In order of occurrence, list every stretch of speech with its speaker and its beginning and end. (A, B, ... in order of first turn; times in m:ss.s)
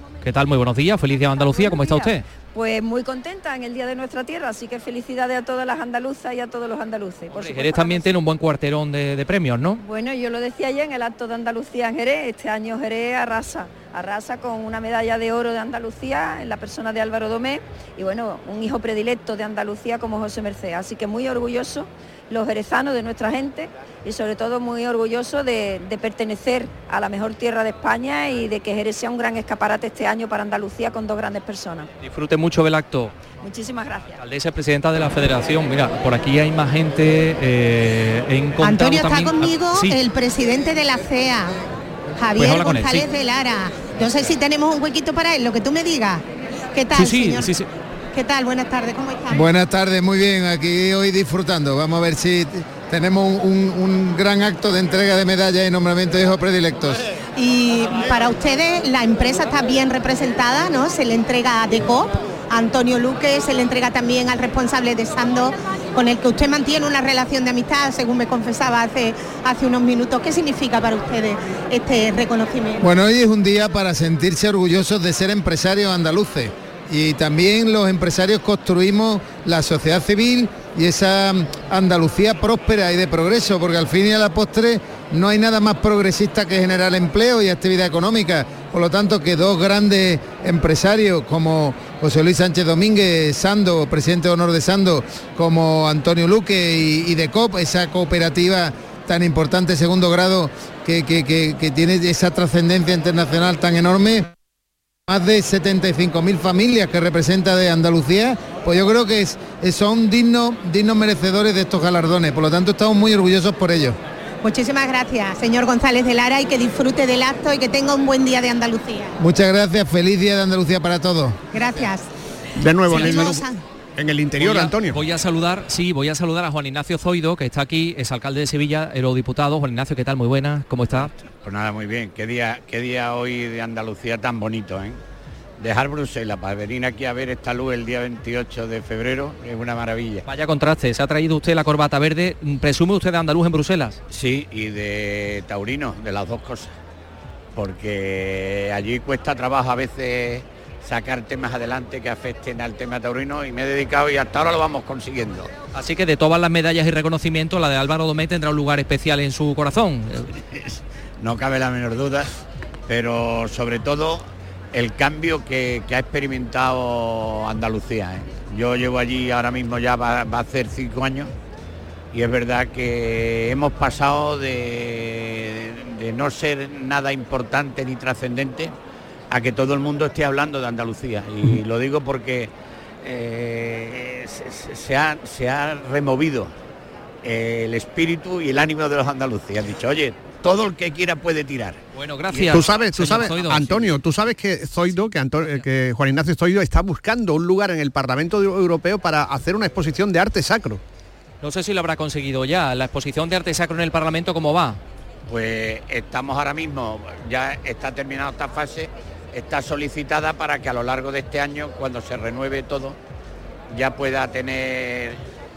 0:00.2-0:02.2 A
0:01.4-0:08.1 B
0:07.3-0:09.8 A
0:09.8-0:31.9 B
0:32.0-0:33.1 A
0:33.4-0:34.2 B
0:34.2-0:40.0 A
0:38.6-0:41.5 C
0:42.2-0:47.5 C
0:42.4-0:43.1 A
0:46.9-0:47.7 A
0:48.1-0:49.4 C
0:49.3-0:57.0 D
0:57.4-1:12.8 C
1:12.8-1:44.3 D
1:45.1-1:54.0 D
1:54.4-1:59.1 C
1:59.2-2:01.4 D
2:01.5-2:02.1 C
2:02.6-2:05.0 E
2:02.9-2:03.6 C
2:04.4-2:11.1 A
2:11.4-2:15.0 F
2:15.6-2:20.2 F
2:20.3-2:24.0 A
2:24.1-2:26.7 F
2:27.6-2:35.5 F
2:35.7-2:40.3 A
2:41.2-2:42.3 F
2:42.9-2:51.3 F
2:52.1-2:58.7 F
2:59.3-3:06.5 F
3:07.2-3:11.8 F
3:11.9-3:14.0 A
3:12.3-3:20.8 E
3:21.4-3:24.8 A
3:25.3-3:33.0 F
3:33.7-3:35.2 F